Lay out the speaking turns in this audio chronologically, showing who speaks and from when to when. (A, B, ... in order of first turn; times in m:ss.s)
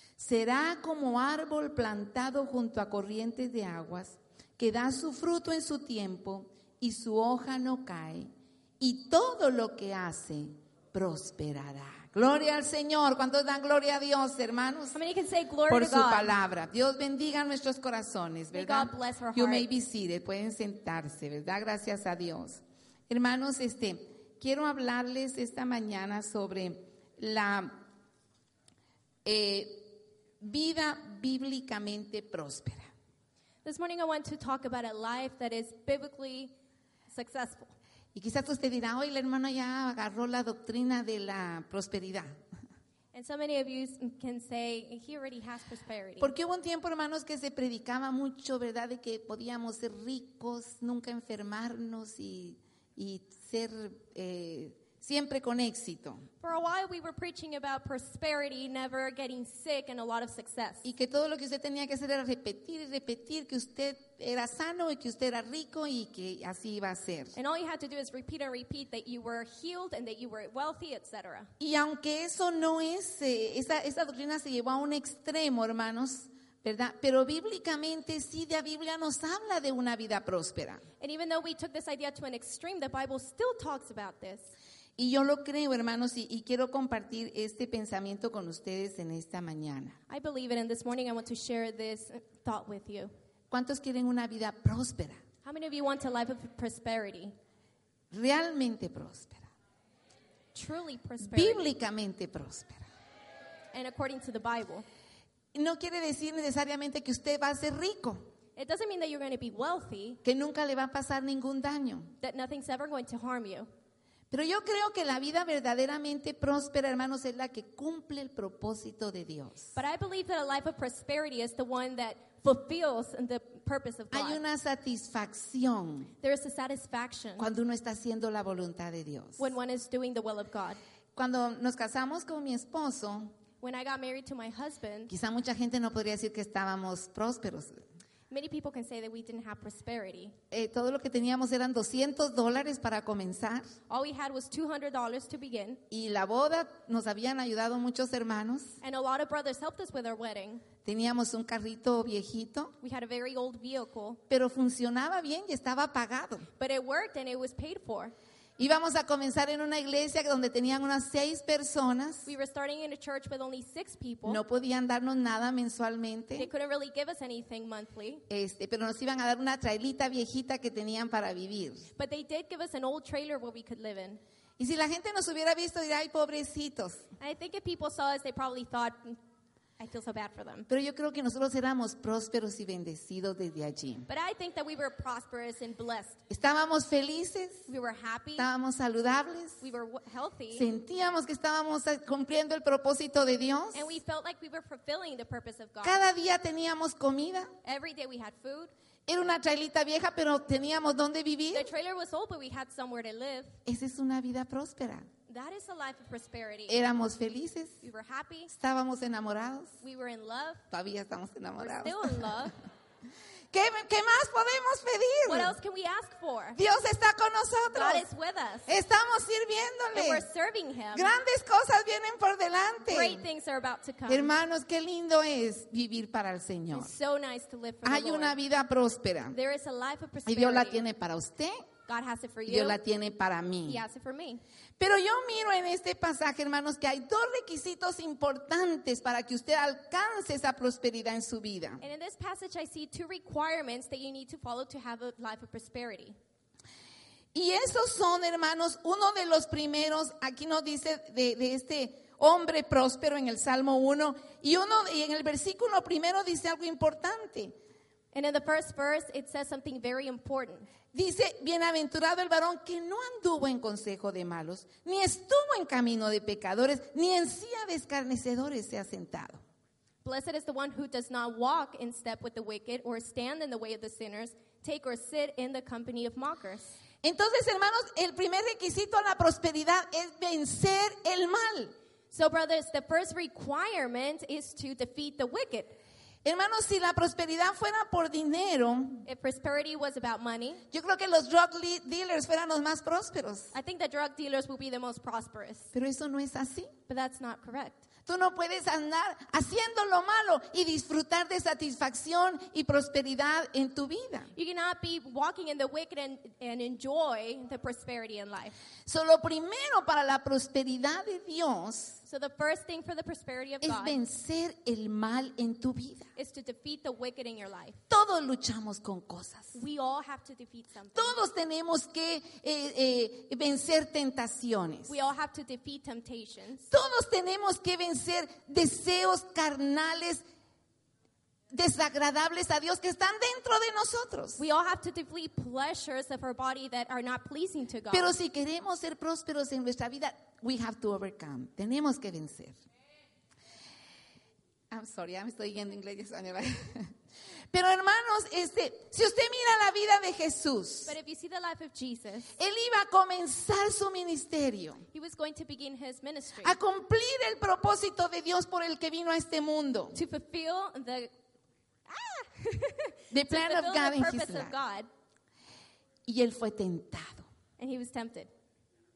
0:00.2-0:15.0 A
0:14.9-0:16.3 B
0:15.7-0:27.8 A
0:18.5-0:19.7 B
0:29.2-0:32.9 A
0:33.6-0:36.5 B
0:37.1-0:37.7 B
0:38.2-0:42.4 A
0:43.1-0:46.3 B
0:46.2-0:56.3 A
0:56.4-1:00.8 B
1:00.8-1:07.4 A
1:07.4-1:11.5 B
1:11.6-1:20.8 A
1:21.0-1:24.5 B
1:25.0-1:30.0 A
1:30.1-1:33.1 B
1:33.5-1:35.2 A
1:35.4-1:37.3 B
1:38.1-1:39.5 A
1:40.6-1:41.7 B
1:41.2-1:42.8 A
1:43.7-1:44.9 B
1:45.5-1:48.3 A
1:48.6-1:50.2 B
1:50.2-1:52.1 A
1:52.2-1:53.7 B
1:54.3-1:59.7 A
1:59.8-2:04.4 B
2:04.1-2:06.1 A
2:06.2-2:07.5 B
2:07.4-2:09.5 A
2:09.4-2:10.8 B
2:11.2-2:13.3 A
2:13.6-2:15.1 B
2:15.1-2:17.8 A
2:18.3-2:20.4 B
2:20.5-2:23.8 A
2:23.9-2:25.8 B
2:25.9-2:28.8 A
2:28.8-2:30.6 B
2:30.8-2:32.8 A
2:32.8-2:34.2 B
2:34.3-2:36.5 A
2:36.6-2:38.1 B
2:38.6-2:42.3 A
2:42.3-2:44.4 B
2:44.3-2:46.5 A
2:46.4-2:48.2 B
2:48.3-2:51.9 A
2:52.0-2:54.2 B
2:54.6-2:57.0 A
2:57.2-2:59.2 B
2:59.8-3:00.7 B
3:00.7-3:04.1 A
3:04.1-3:06.2 B
3:06.3-3:07.7 A
3:07.7-3:08.5 B
3:08.4-3:09.6 A
3:09.6-3:10.7 B
3:10.5-3:13.9 A
3:13.7-3:16.0 B
3:15.8-3:17.5 A
3:17.6-3:18.7 B
3:19.1-3:21.7 A
3:21.5-3:23.6 B
3:23.7-3:25.1 A
3:25.3-3:26.8 B
3:26.7-3:27.8 A
3:27.8-3:28.5 B
3:28.5-3:29.8 A
3:29.8-3:30.6 B
3:30.7-3:32.5 A
3:31.6-3:32.6 B
3:33.5-3:35.6 A
3:35.2-3:36.6 B
3:36.6-3:38.0 A
3:37.7-3:38.7 B
3:38.7-3:40.3 A
3:39.9-3:41.1 B
3:40.9-3:43.2 A
3:42.9-3:44.3 B
3:44.1-3:46.9 A
3:46.7-3:48.4 B
3:47.8-3:49.4 A
3:49.3-3:50.8 B
3:50.3-3:51.6 A
3:51.9-3:52.8 B
3:52.5-3:53.8 A
3:53.6-3:54.4 B
3:54.8-4:01.8 A
4:01.8-4:06.2 B
4:07.3-4:17.6 A
4:18.1-4:20.7 B
4:20.9-4:29.4 A
4:30.0-4:36.7 B
4:37.0-4:41.7 A
4:42.1-4:45.8 B
4:46.2-4:49.0 A
4:49.0-4:50.6 B
4:50.7-4:53.5 A
4:53.5-4:55.7 B
4:55.7-4:56.7 A
4:56.9-4:57.8 B
4:58.1-5:04.3 A
5:04.4-5:08.6 B
5:08.9-5:12.0 A
5:12.0-5:14.0 B
5:13.6-5:16.1 A
5:16.2-5:17.8 B
5:17.9-5:19.6 A
5:19.5-5:21.2 B
5:21.0-5:24.9 A
5:24.9-5:26.7 B
5:26.7-5:30.2 A
5:31.5-5:34.4 A
5:34.4-5:38.1 B
5:37.9-5:42.6 A
5:44.7-5:46.9 A
5:47.5-5:50.9 A
5:50.9-5:52.3 B
5:52.4-5:54.8 A
5:54.9-5:56.6 B
5:56.4-6:00.0 A
5:59.9-6:01.1 B
6:01.9-6:04.9 B
6:03.1-6:04.5 A
6:06.1-6:07.3 A
6:07.6-6:08.3 B